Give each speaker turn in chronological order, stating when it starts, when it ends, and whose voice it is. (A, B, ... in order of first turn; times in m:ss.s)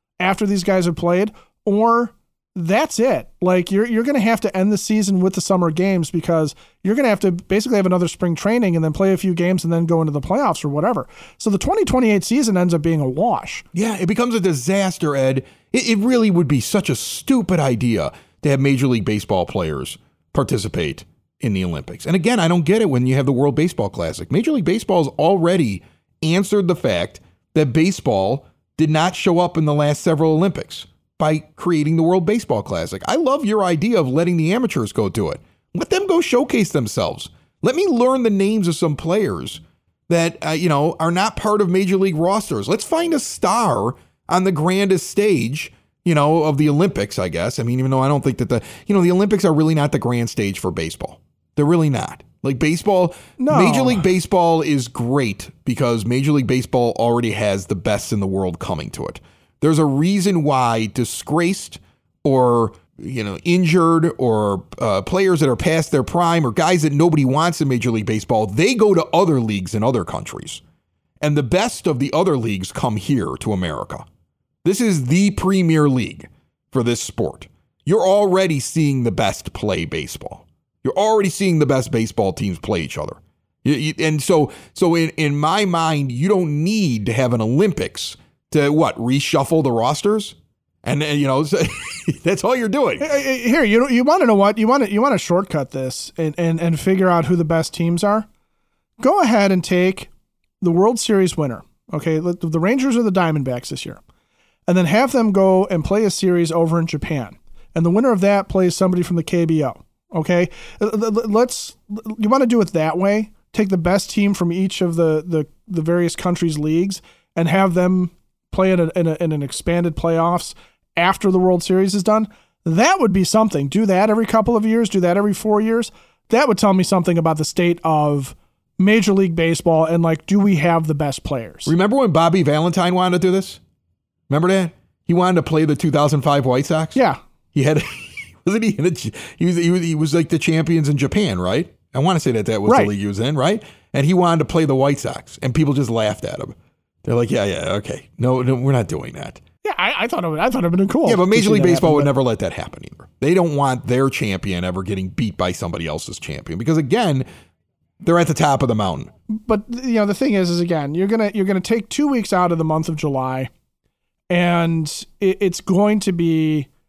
0:00.2-0:13.6 A
0:13.7-1:10.6 B
0:53.4-0:54.1 A
1:11.2-1:14.0 B
1:14.6-1:33.1 B
1:33.0-1:38.3 A
1:39.0-1:40.1 A
1:40.6-1:44.0 A
1:44.7-2:11.7 A
2:11.7-2:13.6 B
2:14.3-2:17.0 B
2:17.0-2:17.2 A
2:17.5-2:29.4 B
2:22.7-2:22.9 A
2:29.6-2:32.1 A
2:31.0-2:37.3 B
2:38.0-2:39.1 B
2:39.3-2:43.5 A
2:44.3-2:46.7 A